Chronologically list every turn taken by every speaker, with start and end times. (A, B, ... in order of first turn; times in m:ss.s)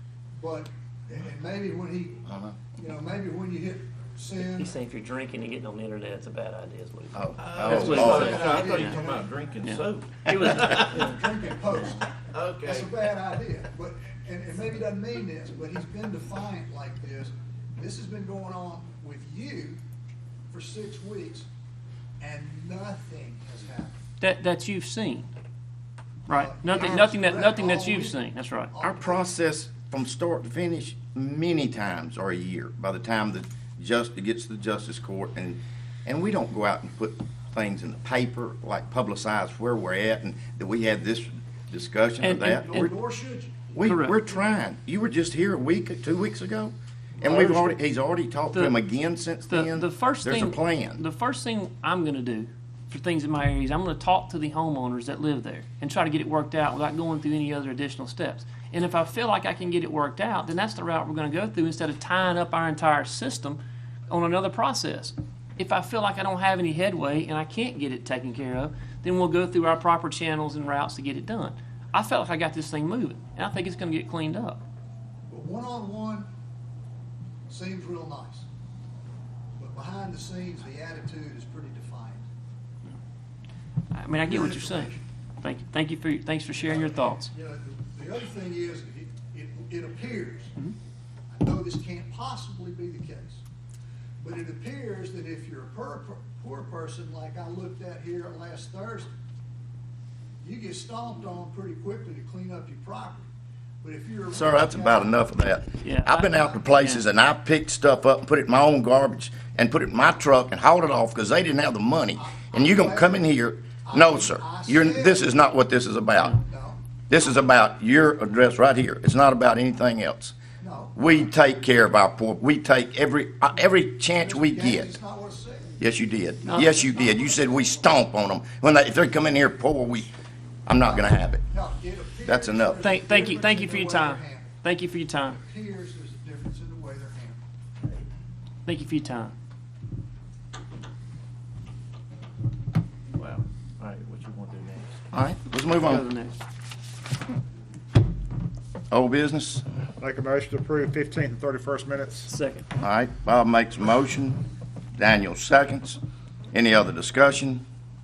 0:00.3-0:04.7 A
0:02.2-0:02.6 B
0:04.4-0:09.0 C
0:07.1-0:08.6 B
0:07.4-0:11.0 D
0:07.6-0:09.4 A
0:09.6-0:11.2 C
0:10.3-0:19.8 A
0:12.3-0:12.9 D
0:20.5-0:21.5 A
0:22.2-0:24.0 A
0:24.2-0:25.3 C
0:26.3-0:28.7 C
0:26.3-0:28.2 A
0:28.7-0:29.3 A
0:28.8-0:42.9 B
0:42.2-0:42.9 C
0:42.6-0:43.6 A
0:43.7-0:51.0 B
0:43.8-0:44.2 C
0:47.2-0:47.8 C
0:49.4-1:14.6 C
1:15.3-1:16.3 A
1:17.5-1:18.5 A
1:19.6-1:22.2 A
1:23.9-1:27.3 C
1:24.2-1:25.0 A
1:26.6-1:30.5 A
1:31.3-1:33.4 A
1:34.2-1:39.1 A
1:40.4-1:43.2 A
1:43.8-1:45.2 A
1:44.3-1:56.4 B
1:45.8-1:47.0 C
1:52.2-1:53.3 A
1:53.8-1:55.3 A
1:56.3-1:56.8 A
1:57.1-2:00.3 B
2:00.6-2:01.0 A
2:01.0-2:05.0 B
2:04.2-2:05.7 A
2:05.8-2:10.1 B
2:06.4-2:07.9 A
2:06.5-2:06.7 C
2:10.6-2:11.4 B
2:10.8-2:14.6 A
2:12.2-2:12.8 B
2:12.8-2:15.4 C
2:15.4-2:17.4 A
2:18.6-2:19.3 C
2:23.1-2:25.0 D
2:25.1-2:26.1 B
2:25.7-2:26.3 C
2:28.9-2:29.6 B
2:30.0-2:32.3 E
2:32.3-2:32.6 C
2:32.8-2:34.4 B
2:35.0-2:36.0 B
2:36.5-2:37.6 B